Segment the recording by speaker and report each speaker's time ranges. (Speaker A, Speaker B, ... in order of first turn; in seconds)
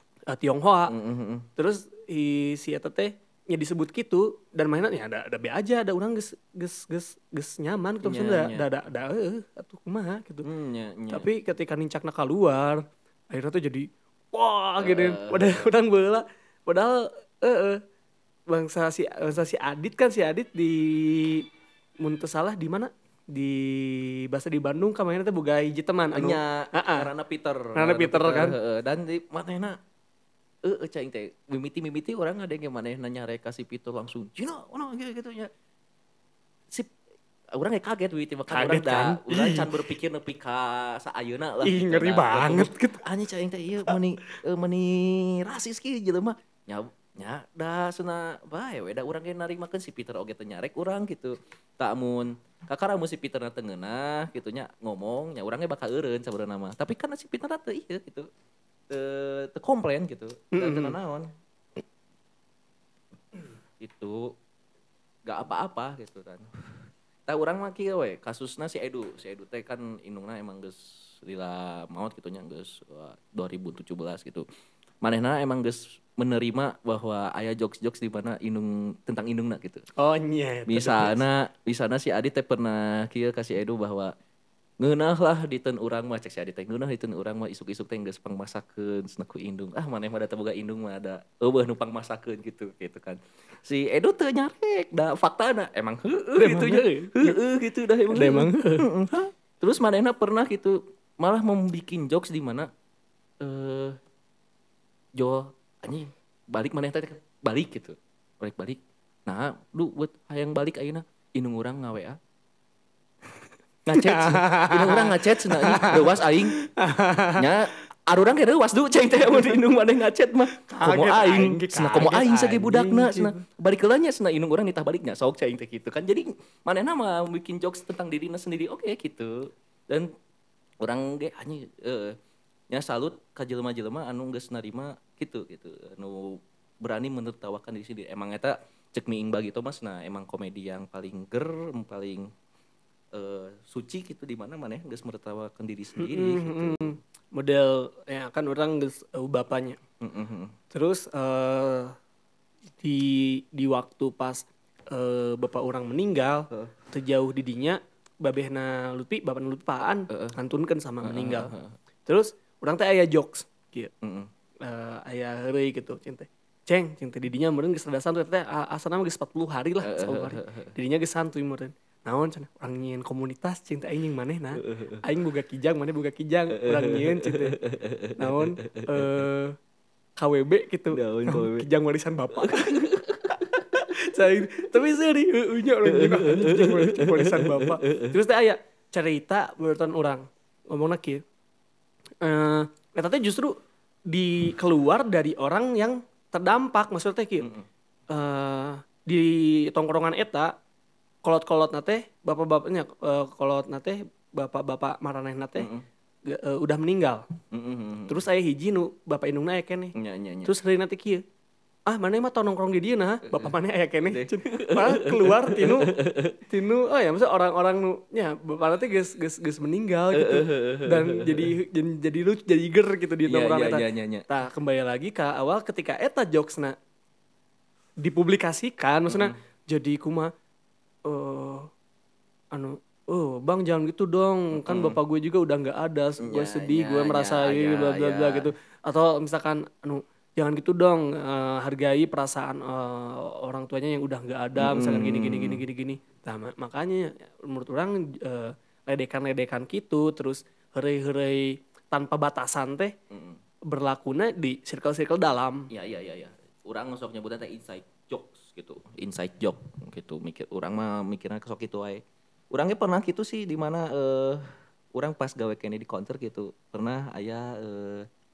Speaker A: 0.3-0.9, 1.6-10.4, 11.1-17.8, 18.5-21.5, 22.0-27.1, 27.8-28.6, 38.5-39.7, 41.6-43.0, 60.5-61.0, 80.0-81.2, 96.4-97.4, 98.1-98.8, 113.9-117.5, 119.3-119.6, 120.7-123.4, 146.0-149.8, 150.7-151.9, 152.8-161.5, 162.1-163.9, 164.6-177.6, 178.2-179.6, 180.2-191.2, 192.2-193.6, 194.1-197.5, 198.1-200.6, 201.2-205.7, 206.2-207.2, 208.1-209.9, 210.4-211.2, 211.9-215.9, 216.5-226.8, 228.0-230.3, 231.1-231.7, 232.5-252.9, 253.7-255.7
Speaker B: 0.9-1.5, 8.0-8.7, 10.4-11.3, 14.8-15.7, 26.1-29.8, 30.6-35.5, 37.5-58.3, 58.9-61.3, 63.8-64.3, 65.3-66.5, 67.3-74.5, 75.0-79.8, 80.7-84.1, 84.8-102.7, 103.4-104.0, 105.2-112.2, 113.9-116.6, 117.3-130.1, 130.8-132.2, 132.7-142.3, 143.1-147.0, 150.0-150.6, 160.1-160.4, 161.0-161.8, 164.0-164.3, 169.8-170.7, 174.6-175.0, 176.5-179.2, 180.9-181.7, 182.3-183.9, 185.8-188.2, 197.4-197.7, 205.6-205.8, 207.5-208.2, 209.9-210.5, 213.3-213.5, 214.1-216.4, 220.1-221.5, 223.3-224.3, 229.1-229.3, 234.5-235.0, 236.2-238.5, 244.6-245.6, 253.1-253.4, 255.7-268.1